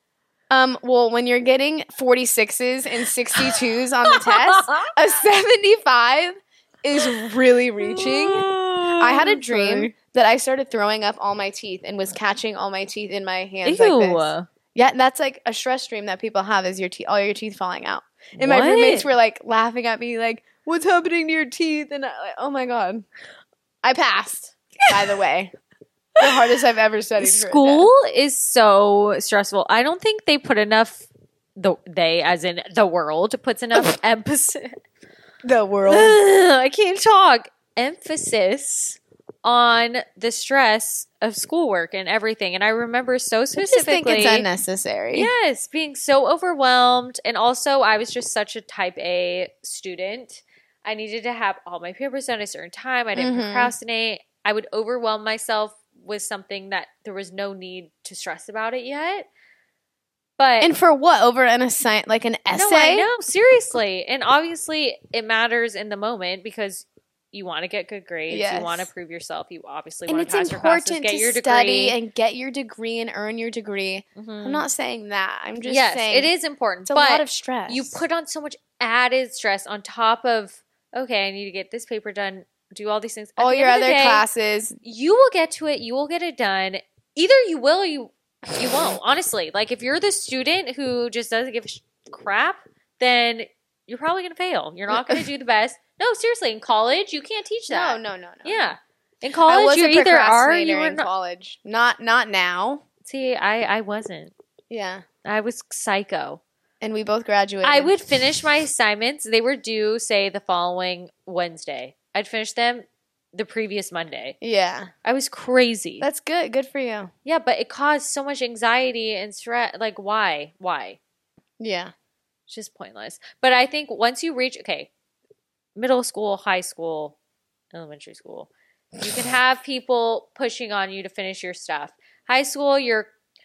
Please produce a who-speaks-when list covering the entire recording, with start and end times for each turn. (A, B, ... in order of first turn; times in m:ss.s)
0:00.5-0:23.0 A
0:04.1-0:04.9 B
0:07.8-0:09.9 B
0:13.6-0:14.4 B
0:18.4-0:19.1 B
0:23.8-0:25.5 A
0:26.2-0:26.4 B
0:26.2-0:27.9 A
0:27.2-0:31.0 B
0:31.6-0:34.7 B
0:35.4-0:36.2 A
0:35.9-0:44.5 B
0:43.6-0:45.3 A
0:45.1-0:59.3 B
0:53.2-0:53.7 A
1:00.4-1:00.7 B
1:00.6-1:03.1 A
1:02.5-1:12.0 B
1:08.3-1:08.9 A
1:10.1-1:16.3 A
1:14.2-1:14.7 B
1:15.6-1:24.2 B
1:16.9-1:18.0 A
1:23.4-1:24.8 A
1:24.8-1:41.1 B
1:28.6-1:28.9 A
1:34.9-1:35.2 A
1:37.7-1:38.7 A
1:39.5-1:42.8 A
1:43.0-1:44.3 B
1:44.7-1:45.0 A
1:45.2-1:46.4 B
1:46.8-1:47.9 A
1:47.6-1:54.4 B
1:54.4-1:54.9 A
1:55.0-1:56.0 B
1:56.0-1:57.1 A
1:57.2-2:01.0 B
2:01.6-2:01.9 A
2:02.5-2:04.9 B
2:05.8-2:07.2 B
2:07.7-2:13.1 B